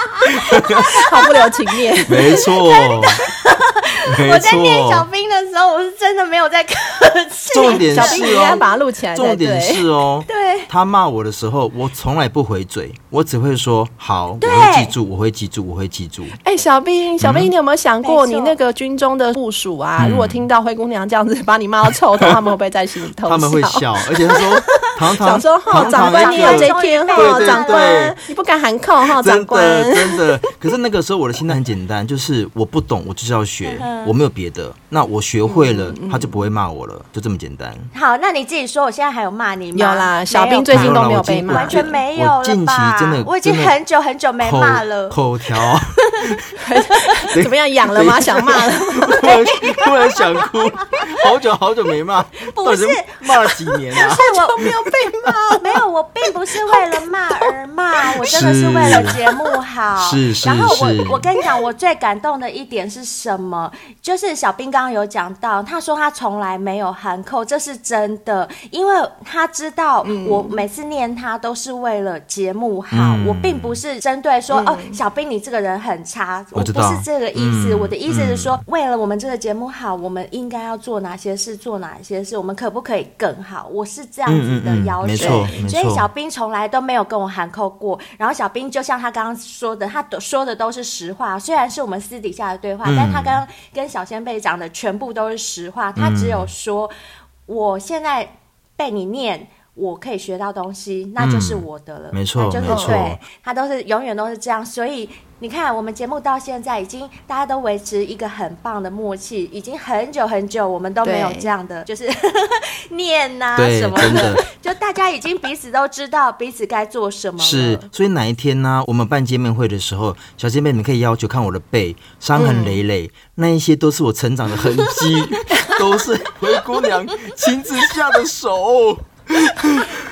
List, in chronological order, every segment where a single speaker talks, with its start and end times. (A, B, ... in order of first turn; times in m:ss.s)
0:00.2-0:01.0 A
0:00.9-0:02.5 B
0:01.1-0:01.5 C
0:02.1-0:03.2 A
0:02.3-0:08.7 C
0:04.1-0:05.1 A
0:07.5-0:08.6 A
0:07.6-0:09.9 B
0:09.2-0:16.4 A
0:10.3-0:10.7 C
0:14.4-0:15.0 C
0:16.4-0:30.4 B
0:17.2-0:17.5 A
0:18.0-0:18.6 C
0:20.0-0:20.5 A
0:23.3-0:28.2 A
0:25.8-0:28.0 C
0:29.2-0:37.9 A
0:33.6-0:34.2 C
0:35.5-0:36.4 B
0:37.9-0:46.4 C
0:39.7-0:42.0 B
0:40.7-0:43.7 A
0:44.4-0:46.6 A
0:46.6-0:49.3 B
0:47.0-0:47.3 C
0:47.3-0:54.6 A
0:49.2-0:50.2 C
0:52.5-0:54.7 C
0:54.1-0:55.7 B
0:55.6-1:36.9 C
0:58.2-0:59.2 A
1:00.0-1:01.3 A
1:10.0-1:10.6 B
1:12.9-1:13.8 A
1:14.5-1:15.0 B
1:16.6-1:18.6 A
1:24.3-1:26.1 A
1:25.2-1:25.6 B
1:32.8-1:33.4 A
1:36.0-1:36.5 A
1:37.5-1:57.9 C
1:41.2-1:43.2 A
1:42.7-1:43.0 B
1:51.0-1:51.5 B
1:53.6-1:54.4 A
1:57.4-2:09.9 A
2:02.4-2:02.8 B
2:09.6-2:09.9 B